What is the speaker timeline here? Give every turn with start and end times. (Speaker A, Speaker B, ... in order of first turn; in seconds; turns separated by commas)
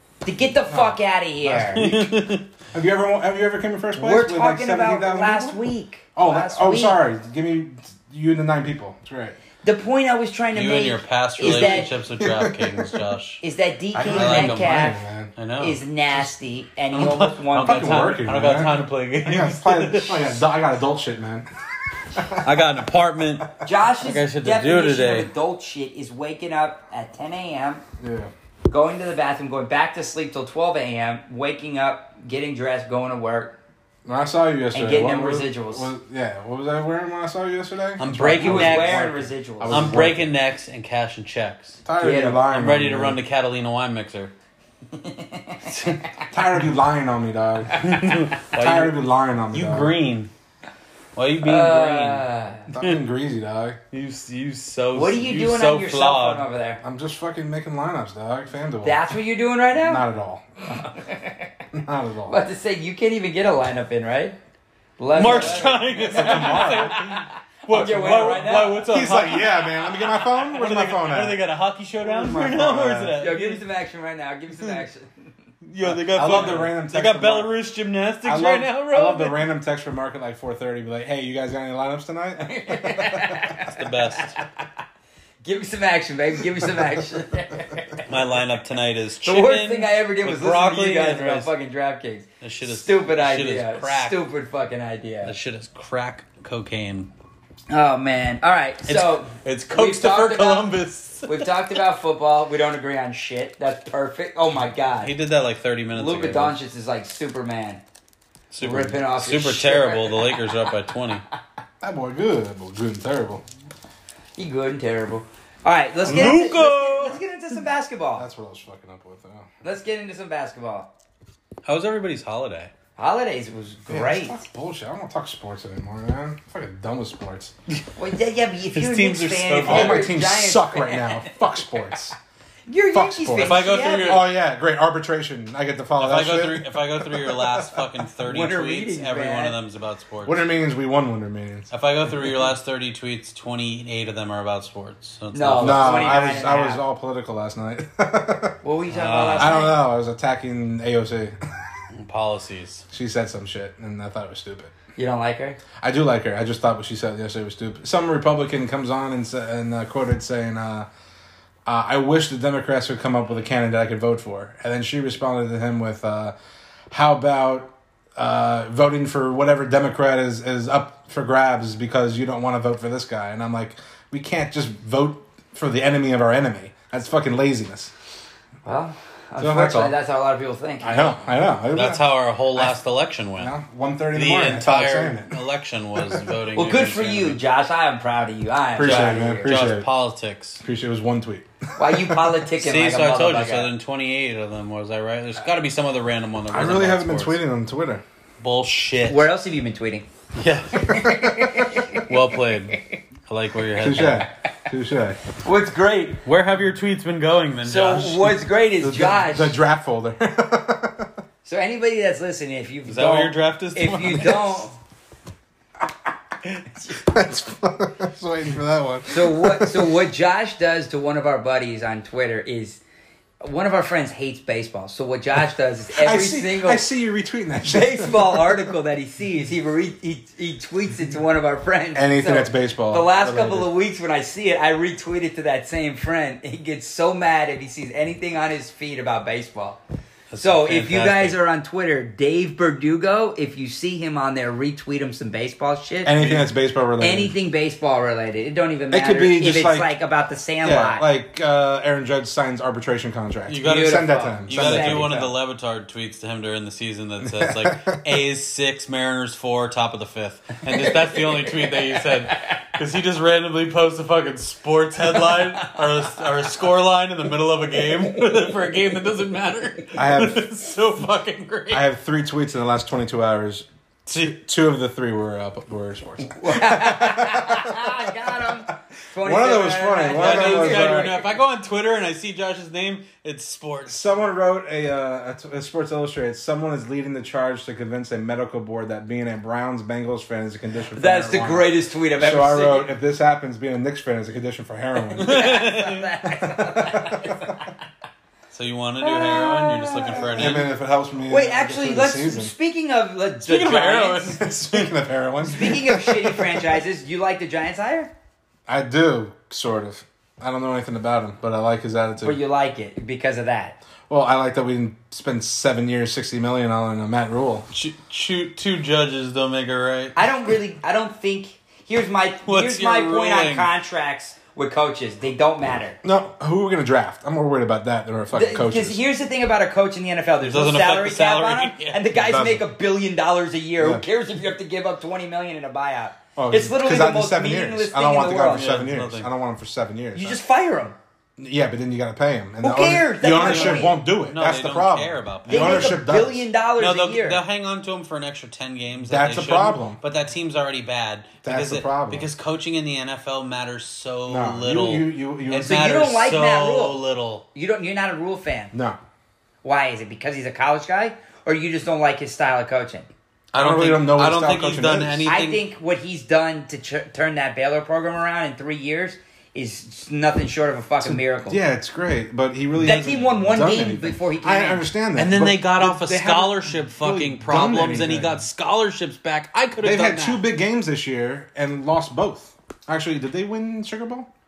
Speaker A: 0.2-1.9, Speaker B: 0.7-2.2, Speaker C: 1.8-2.5, Speaker B: 2.7-5.6, Speaker A: 4.0-7.0, Speaker B: 6.2-9.4, Speaker A: 9.6-11.9, Speaker C: 10.5-13.4, Speaker B: 11.4-13.0, Speaker A: 13.4-15.0, Speaker B: 13.9-15.3, Speaker C: 14.1-15.8, Speaker A: 15.6-18.0, Speaker C: 16.9-20.4, Speaker B: 17.6-21.5, Speaker B: 22.1-22.5, Speaker C: 22.4-25.3, Speaker A: 23.6-27.8, Speaker B: 28.0-28.3, Speaker A: 28.7-33.6, Speaker B: 34.0-40.3, Speaker A: 34.7-35.9, Speaker C: 38.0-41.8, Speaker A: 38.2-40.0, Speaker B: 41.9-43.2, Speaker A: 42.0-42.4, Speaker C: 42.5-44.3, Speaker A: 44.9-45.9, Speaker C: 45.7-46.0, Speaker B: 46.3-47.9, Speaker A: 47.7-48.2, Speaker C: 47.8-49.0, Speaker B: 48.5-49.9, Speaker C: 49.5-50.3, Speaker C: 51.2-52.3, Speaker A: 51.4-52.7, Speaker B: 52.7-53.8, Speaker C: 53.9-56.5, Speaker A: 54.9-56.8, Speaker B: 56.8-59.0, Speaker A: 58.8-60.1, Speaker B: 59.8-60.8, Speaker A: 60.7-61.5, Speaker B: 61.7-62.4, Speaker A: 62.3-64.4, Speaker A: 65.0-68.8, Speaker C: 65.1-73.6, Speaker B: 66.1-67.0, Speaker B: 68.9-71.4, Speaker A: 72.0-75.3, Speaker C: 75.6-79.5, Speaker B: 76.0-77.5, Speaker B: 78.2-83.5, Speaker A: 82.4-84.7, Speaker C: 83.6-84.4, Speaker A: 85.4-88.1, Speaker C: 88.1-91.5, Speaker A: 89.2-95.3, Speaker C: 92.4-94.2, Speaker C: 95.2-97.1, Speaker A: 97.7-100.7, Speaker C: 98.9-101.7, Speaker A: 101.3-105.1, Speaker C: 105.0-106.6, Speaker A: 105.9-107.8, Speaker C: 108.5-111.2, Speaker A: 108.6-110.5, Speaker B: 111.8-113.4, Speaker A: 114.4-118.2, Speaker C: 116.0-117.2, Speaker B: 116.1-116.5, Speaker B: 118.2-119.5, Speaker A: 119.6-120.9, Speaker C: 121.7-122.7, Speaker A: 123.0-124.4, Speaker B: 123.9-127.5, Speaker A: 128.0-131.4, Speaker C: 128.7-130.1, Speaker B: 129.6-132.2, Speaker A: 132.7-134.3, Speaker B: 132.9-137.9, Speaker C: 133.4-134.3, Speaker C: 136.0-140.4, Speaker A: 138.2-139.6, Speaker B: 140.2-141.7, Speaker C: 141.7-146.2, Speaker A: 145.3-146.8, Speaker B: 145.6-148.6, Speaker A: 148.6-149.8, Speaker C: 148.9-149.7, Speaker B: 149.4-151.5, Speaker C: 151.9-152.8, Speaker B: 152.9-154.7, Speaker A: 155.0-155.6, Speaker B: 155.8-160.9, Speaker B: 161.7-166.3, Speaker B: 166.9-177.9, Speaker A: 178.7-181.1, Speaker B: 179.4-179.9, Speaker B: 180.8-182.0, Speaker C: 181.7-183.5, Speaker B: 183.4-185.3, Speaker C: 184.2-187.4, Speaker B: 186.0-186.3, Speaker A: 186.5-189.7, Speaker B: 188.8-189.9, Speaker C: 188.8-190.6, Speaker B: 190.6-192.4, Speaker A: 191.8-193.7, Speaker C: 192.6-197.4, Speaker B: 196.5-198.0, Speaker C: 198.4-199.3, Speaker A: 199.1-200.1, Speaker C: 200.4-201.3, Speaker A: 200.8-202.1, Speaker C: 201.9-204.3, Speaker B: 203.8-205.2, Speaker A: 205.4-206.2, Speaker C: 206.2-208.3, Speaker A: 207.6-209.6, Speaker B: 208.8-211.1, Speaker A: 211.4-214.8, Speaker C: 212.8-214.7, Speaker B: 216.9-220.0, Speaker A: 219.1-222.8, Speaker A: 223.4-226.9, Speaker B: 225.9-228.6, Speaker A: 227.7-239.8, Speaker B: 231.9-233.7, Speaker C: 240.3-241.4, Speaker A: 240.4-246.4, Speaker B: 246.1-247.3, Speaker A: 247.0-251.1, Speaker B: 248.9-249.9, Speaker B: 250.6-255.3, Speaker C: 253.5-271.9, Speaker A: 253.6-255.3, Speaker B: 257.2-258.0, Speaker A: 260.8-261.8, Speaker A: 265.3-265.7, Speaker B: 270.0-270.4, Speaker B: 271.7-278.6, Speaker C: 274.1-274.4, Speaker A: 276.4-281.2, Speaker B: 279.2-281.2, Speaker C: 280.1-284.1, Speaker B: 283.9-295.6, Speaker A: 290.9-292.9, Speaker A: 295.1-297.7, Speaker C: 295.2-296.1, Speaker B: 296.5-297.6, Speaker C: 298.5-300.7, Speaker A: 299.0-300.6, Speaker B: 300.3-302.5, Speaker A: 301.3-304.4, Speaker C: 303.4-305.0, Speaker B: 304.4-306.6, Speaker A: 305.4-308.1, Speaker B: 308.7-312.4, Speaker A: 312.2-313.8, Speaker B: 314.1-317.7, Speaker C: 317.7-320.2, Speaker A: 320.2-326.0, Speaker C: 322.5-323.7, Speaker B: 326.0-329.0, Speaker A: 328.3-338.8, Speaker C: 330.4-332.1, Speaker B: 332.1-332.6, Speaker B: 333.8-334.0, Speaker B: 336.4-340.4, Speaker C: 338.5-339.3, Speaker A: 340.1-341.0, Speaker B: 341.4-346.4, Speaker A: 342.6-344.0, Speaker C: 343.2-346.0, Speaker A: 345.5-347.4, Speaker C: 346.8-357.4, Speaker B: 349.1-350.0, Speaker B: 351.4-352.3, Speaker B: 354.3-355.9, Speaker A: 355.6-357.0, Speaker A: 357.5-358.7, Speaker B: 358.7-359.0, Speaker A: 359.6-363.1, Speaker C: 363.5-365.6, Speaker B: 363.6-365.3, Speaker A: 365.3-371.6, Speaker B: 371.0-378.4, Speaker A: 372.8-374.9, Speaker C: 375.2-380.4, Speaker B: 379.8-384.3